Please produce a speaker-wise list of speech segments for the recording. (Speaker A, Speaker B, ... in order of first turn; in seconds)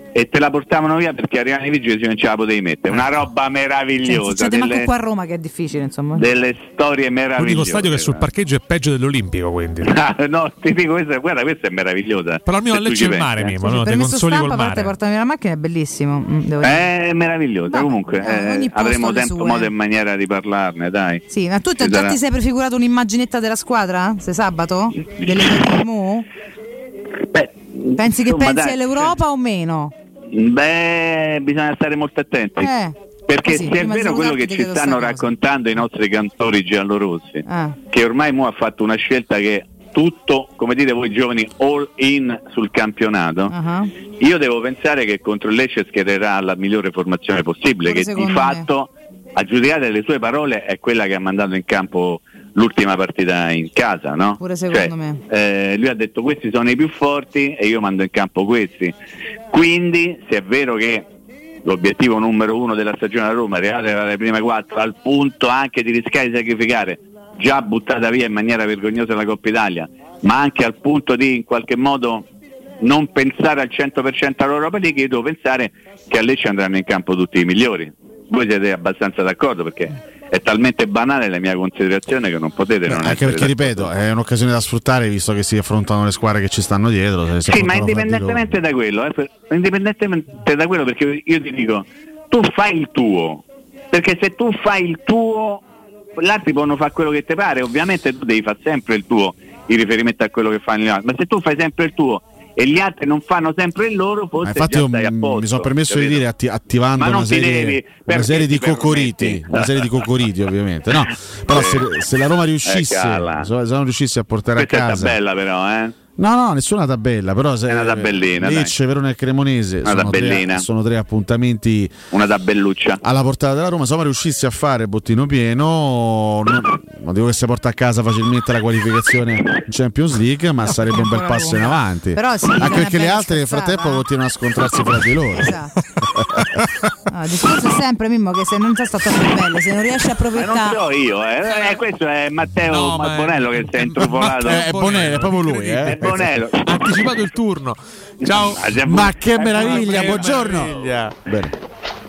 Speaker A: 0.1-4.9, 6.1-8.2, 9.8-13.5, 16.6-21.2, 21.8-22.1, 25.2-25.6, 27.3-29.1, 30.3-32.7, 33.3-43.5, 44.2-58.9, 59.5-61.1, 61.6-72.3, 72.8-83.9, 87.5-95.6, 96.2-106.2, 107.0-110.0, 111.5-111.8, 112.6-113.5, 114.5-115.9, 117.7-118.7, 119.8-120.7, 122.1-123.0, 140.3-144.6, 145.9-147.0, 148.2-150.4
Speaker B: 4.0-6.3, 13.6-16.9, 17.7-19.7, 21.3-26.3, 28.0-29.9, 32.6-32.9, 33.5-35.3, 37.5-37.8, 43.5-43.9, 47.8-48.6, 54.4-55.2, 130.7-134.0, 135.4-135.7, 137.1-140.8
Speaker C: 7.4-9.9, 12.4-14.9, 142.6-148.8, 149.4-151.1
Speaker D: 82.9-88.5, 104.4-115.1, 116.2-121.9, 123.0-135.5, 136.1-136.6, 144.4-146.3, 148.8-151.5